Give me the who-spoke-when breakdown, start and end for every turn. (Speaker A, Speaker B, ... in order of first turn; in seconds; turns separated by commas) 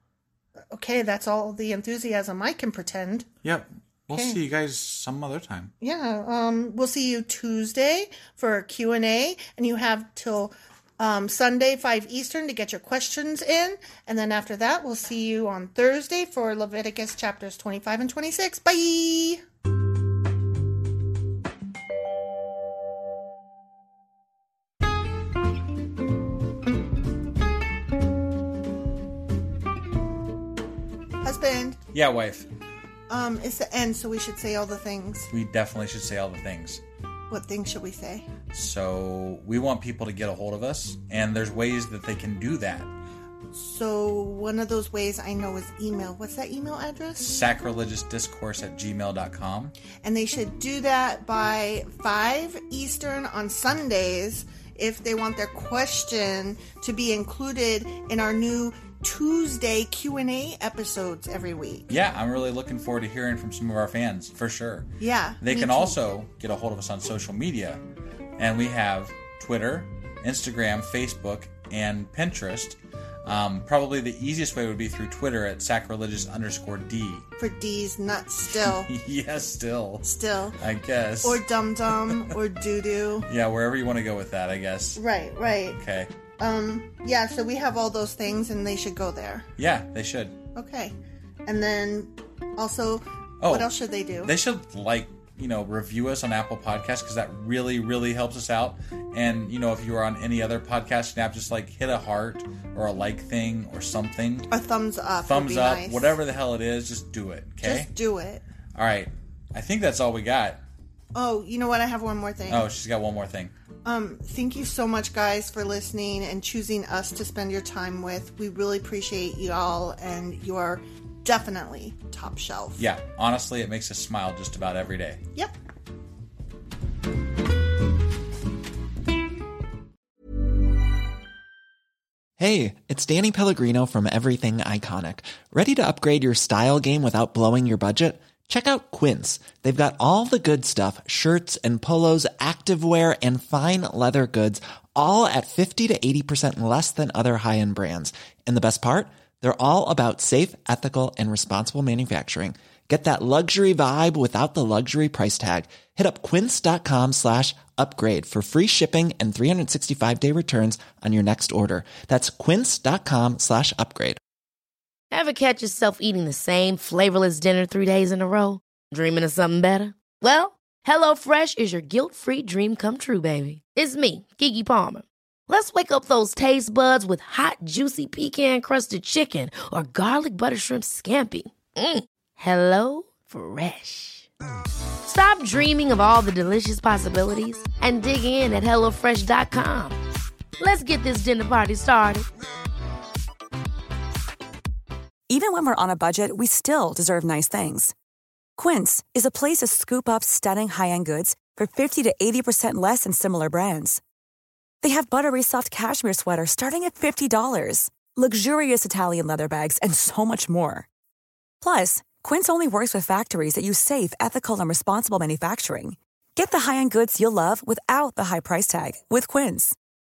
Speaker A: 0.7-3.3, Speaker B: 3.4-5.7, Speaker A: 4.1-4.4, Speaker A: 5.8-19.4, Speaker A: 31.2-31.8, Speaker B: 31.9-32.5, Speaker A: 33.1-35.3, Speaker B: 35.3-36.8, Speaker A: 37.3-38.3, Speaker B: 38.5-42.9, Speaker A: 43.5-47.3, Speaker B: 47.2-49.8, Speaker A: 50.0-61.9, Speaker B: 61.9-64.9, Speaker A: 65.0-66.0, Speaker B: 65.4-67.8, Speaker B: 68.4-77.3, Speaker A: 77.4-78.9, Speaker B: 78.5-80.0, Speaker A: 80.0-80.6, Speaker B: 80.6-81.5, Speaker A: 81.2-83.3, Speaker B: 83.3-85.0, Speaker A: 85.0-85.8, Speaker B: 85.8-86.1, Speaker A: 86.4-89.5, Speaker B: 89.6-90.4, Speaker A: 90.5-91.0, Speaker A: 91.5-94.3, Speaker B: 93.4-93.7, Speaker B: 94.2-104.5, Speaker A: 104.5-106.2, Speaker B: 105.2-107.9, Speaker A: 107.6-108.4, Speaker B: 108.8-110.6, Speaker A: 111.2-112.7, Speaker B: 112.5-113.5, Speaker A: 113.8-122.8, Speaker B: 122.8-125.2, Speaker C: 132.4-164.2, Speaker D: 165.1-184.3, Speaker D: 185.1-190.0, Speaker D: 190.6-192.3, Speaker E: 195.3-197.9, Speaker E: 198.6-204.0, Speaker E: 204.8-210.9, Speaker E: 211.6-219.8